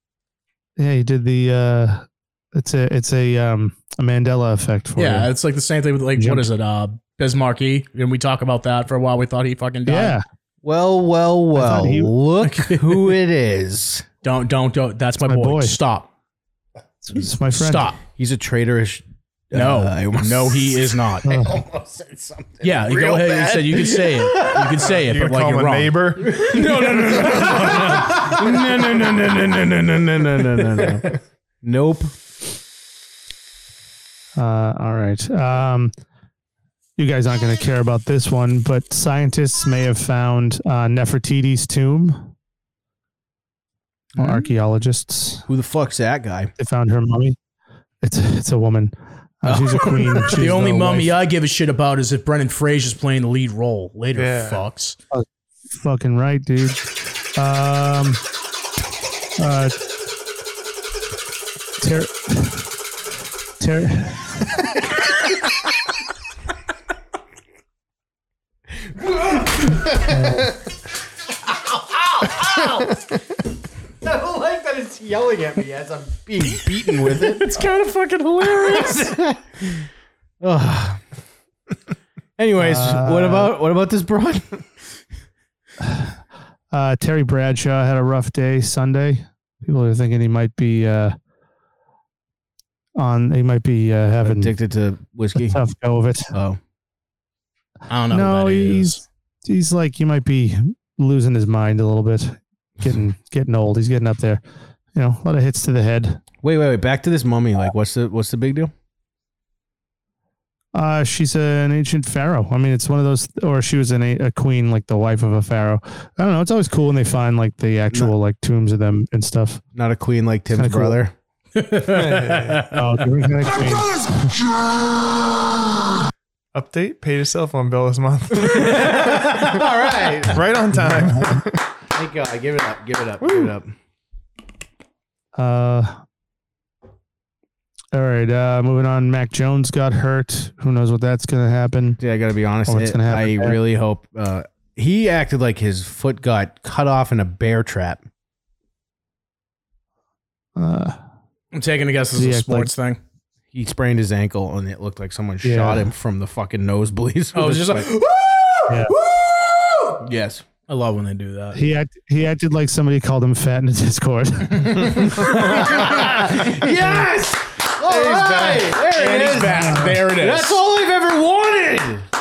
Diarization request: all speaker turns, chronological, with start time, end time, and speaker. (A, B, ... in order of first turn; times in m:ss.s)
0:00.8-0:05.3 A
0:05.0-0:10.2 B
0:06.2-0:06.5 A
0:09.8-0:10.2 A
0:10.6-0:14.0 C
0:11.5-0:12.1 A
0:12.4-0:13.2 B
0:14.2-0:16.1 B
0:15.2-0:15.8 A
0:17.0-0:17.9 A
0:17.5-0:18.0 B
0:18.1-0:24.9 C
0:19.5-0:21.3 B
0:21.2-0:21.6 A
0:22.6-0:28.4 B
0:24.9-0:26.3 D
0:26.2-0:32.1 C
0:34.3-0:35.9 A
0:37.0-0:42.3 A
0:44.2-0:45.4 A
0:45.5-0:46.5 C
0:46.6-0:47.4 A
0:48.0-0:51.1 A
0:49.5-0:55.0 B
0:54.2-0:54.6 D
0:55.1-0:58.2 A
0:59.4-0:59.7 A
1:01.8-1:02.7 A
1:03.6-1:04.6 A
1:08.8-1:10.4 C
1:10.1-1:10.5 A
1:11.5-1:13.0 C
1:14.0-1:17.7 C
1:17.2-1:19.0 B
1:18.4-1:19.9 C
1:20.4-1:21.0 C
1:22.4-1:24.6 C
1:22.6-1:23.5 A
1:25.8-1:26.2 A
1:26.7-1:31.2 A
1:33.0-1:34.5 A
1:34.2-1:35.6 C
1:35.3-1:36.3 A
1:36.3-1:36.6 C
1:37.9-1:39.0 B
1:38.1-1:44.4 A
1:44.9-1:46.2 A
1:46.4-1:48.7 C
1:50.7-1:59.6 A
1:59.7-2:01.1 C
2:00.5-2:01.0 A
2:01.6-2:02.8 B
2:01.9-2:02.7 D
2:02.7-2:04.3 A
2:06.5-2:09.4 D
2:08.4-2:10.4 C
2:10.2-2:11.6 D
2:10.8-2:11.3 A
2:11.9-2:13.7 C
2:15.3-2:16.0 A
2:17.9-2:22.0 A
2:22.0-2:28.0 C
2:22.6-2:23.6 A
2:30.6-2:31.0 A
2:31.5-2:33.0 B
2:32.2-2:32.7 A
2:33.5-2:37.9 C
2:35.4-2:35.9 A
2:37.3-2:40.0 B
2:40.0-2:40.4 C
2:40.7-2:41.6 B
2:41.5-2:45.2 A
2:44.9-2:52.0 C
2:45.2-2:46.2 B
2:47.9-2:50.6 B
2:49.5-2:50.0 A